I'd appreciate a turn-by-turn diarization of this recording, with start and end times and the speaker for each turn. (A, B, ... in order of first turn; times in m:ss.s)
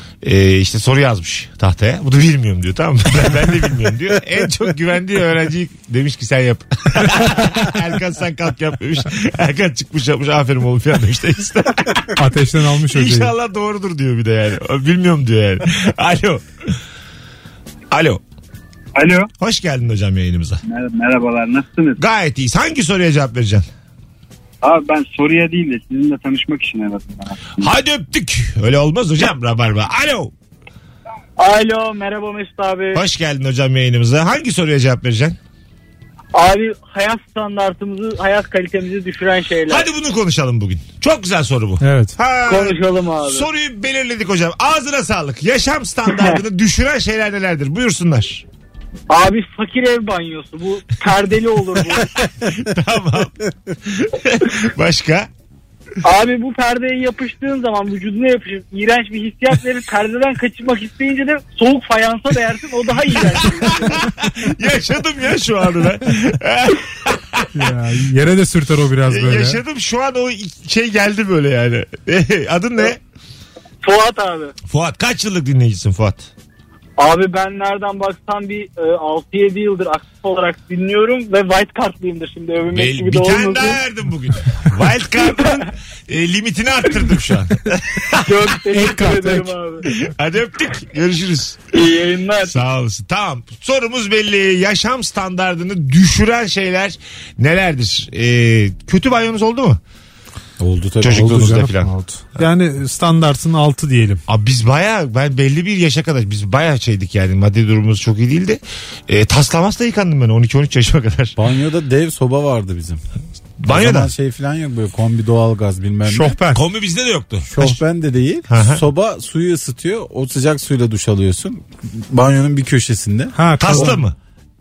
0:00.2-0:12.2 A
0:12.2-0:13.3 B
0:12.9-0:16.4 A
0:17.9-0:18.2 A
0:19.0-0:19.3 C
0:19.4-0:20.6 A
0:20.6-0:22.0 C
0:22.0-0:23.7 A
0:24.6-0:27.7 C
0:27.6-0:30.3 A
0:31.4-0:33.0 D
0:33.0-0:35.4 A
0:36.3-0:39.9 D
0:39.7-0:48.4 A
0:41.8-0:42.2 B
0:42.4-0:43.5 D
0:46.1-0:46.4 D
0:49.1-0:52.1 D
0:52.5-0:55.3 A
0:56.0-1:04.0 D
1:03.7-1:07.5 A
1:07.6-1:09.6 B
1:09.1-1:13.0 A
1:13.8-1:14.5 D
1:14.7-1:16.3 A
1:17.0-1:23.8 D
1:22.7-1:29.0 A
1:28.2-1:29.9 D
1:28.7-1:29.5 B
1:29.9-1:31.6 A
1:31.7-1:32.6 D
1:32.4-1:39.8 A
1:40.6-1:41.6 E
1:41.0-1:41.9 A
1:41.1-1:44.2 B
1:44.3-1:51.4 A
1:51.4-1:53.0 E
1:53.6-1:54.1 A
1:53.7-1:56.4 E
1:56.1-1:56.6 B
1:56.5-1:57.8 A
1:57.5-2:04.0 E
1:58.5-1:58.8 A
2:03.4-2:04.0 B
2:03.6-2:04.2 A